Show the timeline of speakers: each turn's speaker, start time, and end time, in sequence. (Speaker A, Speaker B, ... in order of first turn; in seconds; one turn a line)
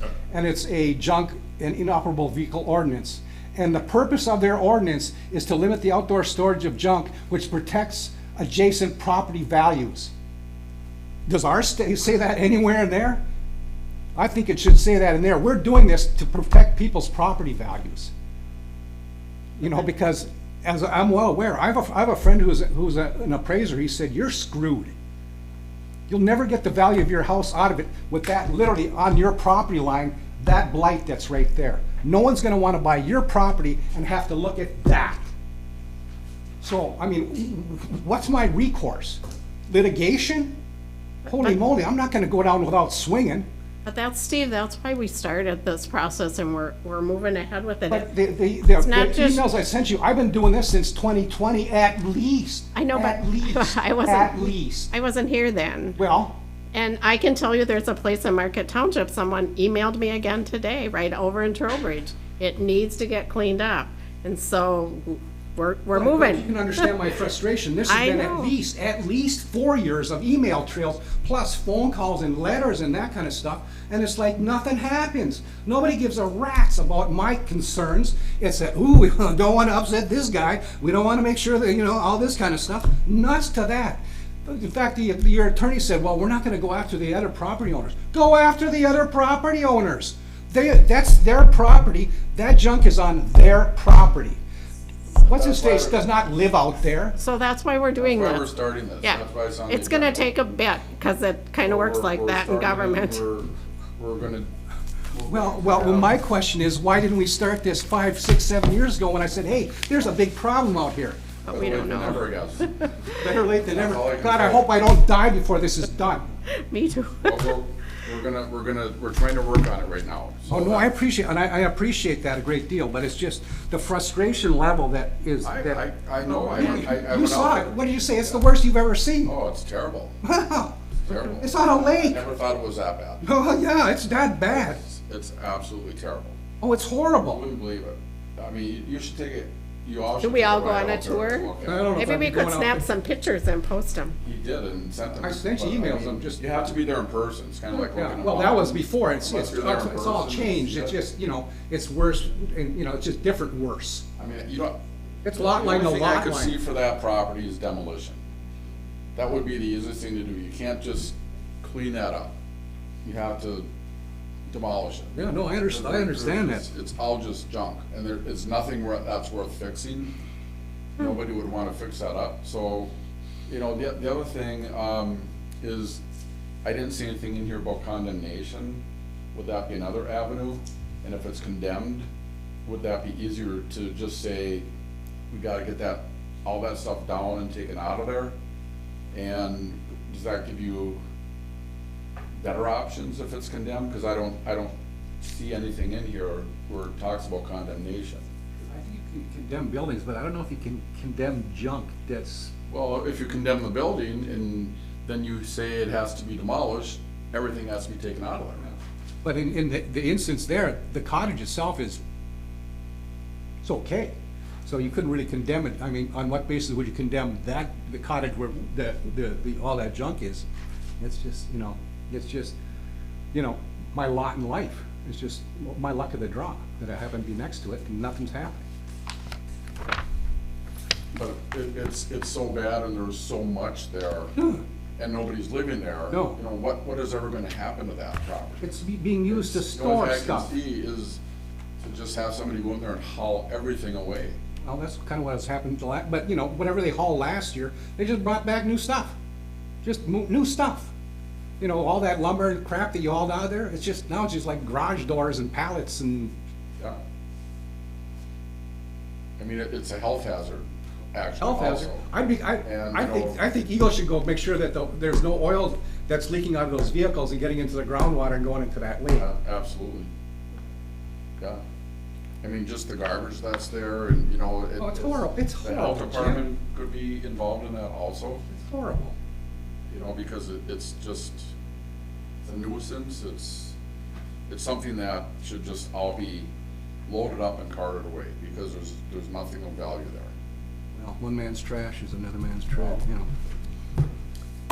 Speaker A: 0.3-10.1
Speaker A: 11.3-13.2
Speaker A: 14.2-18.1
Speaker A: 19.6-25.0
Speaker A: 26.1-35.2
Speaker A: 36.6-40.5
Speaker B: 41.3-41.6
Speaker A: 41.3-43.5
Speaker B: 43.9-48.1
Speaker A: 47.9-54.9
Speaker B: 48.8-49.4
Speaker B: 52.8-56.0
Speaker A: 56.0-56.4
Speaker B: 56.7-66.9
Speaker A: 65.9-94.4
Speaker B: 67.9-68.5
Speaker A: 95.2-97.2
Speaker C: 95.2-96.0
Speaker B: 97.2-98.5
Speaker C: 98.0-100.4
Speaker B: 99.0-103.2
Speaker C: 101.6-104.5
Speaker C: 105.1-106.1
Speaker A: 105.3-112.0
Speaker B: 111.5-112.9
Speaker C: 111.5-112.7
Speaker A: 113.2-116.3
Speaker C: 113.7-114.7
Speaker B: 116.5-117.5
Speaker C: 117.2-120.9
Speaker A: 120.5-129.4
Speaker C: 125.4-128.4
Speaker C: 129.2-130.2
Speaker A: 130.2-132.2
Speaker C: 131.1-133.2
Speaker A: 133.2-134.8
Speaker C: 134.5-136.4
Speaker A: 136.6-137.4
Speaker C: 137.2-142.0
Speaker B: 140.2-144.2
Speaker A: 141.6-142.9
Speaker C: 144.2-151.0
Speaker A: 145.2-146.4
Speaker A: 147.8-154.1
Speaker C: 154.2-154.8
Speaker A: 155.2-156.6
Speaker C: 155.3-158.2
Speaker C: 159.2-162.3
Speaker C: 163.0-163.7
Speaker C: 164.5-170.2
Speaker A: 165.1-166.7
Speaker C: 171.0-172.9
Speaker C: 173.5-176.0
Speaker C: 176.6-178.8
Speaker C: 179.3-182.1
Speaker C: 182.7-184.7
Speaker C: 185.3-188.3
Speaker C: 189.1-191.0
Speaker C: 192.4-198.2
Speaker A: 198.7-202.5
Speaker C: 202.7-208.8
Speaker A: 209.2-212.0
Speaker A: 213.6-214.1
Speaker A: 214.7-220.5
Speaker A: 221.0-222.6
Speaker A: 223.3-228.7
Speaker C: 231.1-234.3
Speaker A: 234.4-234.6
Speaker C: 235.0-238.7
Speaker A: 236.1-236.4
Speaker A: 238.6-240.5
Speaker C: 239.3-241.2
Speaker C: 241.8-244.4
Speaker A: 244.7-249.2
Speaker A: 249.8-250.9
Speaker A: 251.6-256.3
Speaker C: 259.4-262.1
Speaker A: 261.4-269.3
Speaker C: 262.6-263.4
Speaker C: 269.2-270.1
Speaker C: 272.4-278.4
Speaker A: 274.8-276.5
Speaker A: 278.5-279.1
Speaker C: 279.9-281.5
Speaker C: 282.4-283.8
Speaker C: 284.5-286.5
Speaker C: 287.1-290.3
Speaker A: 290.9-293.3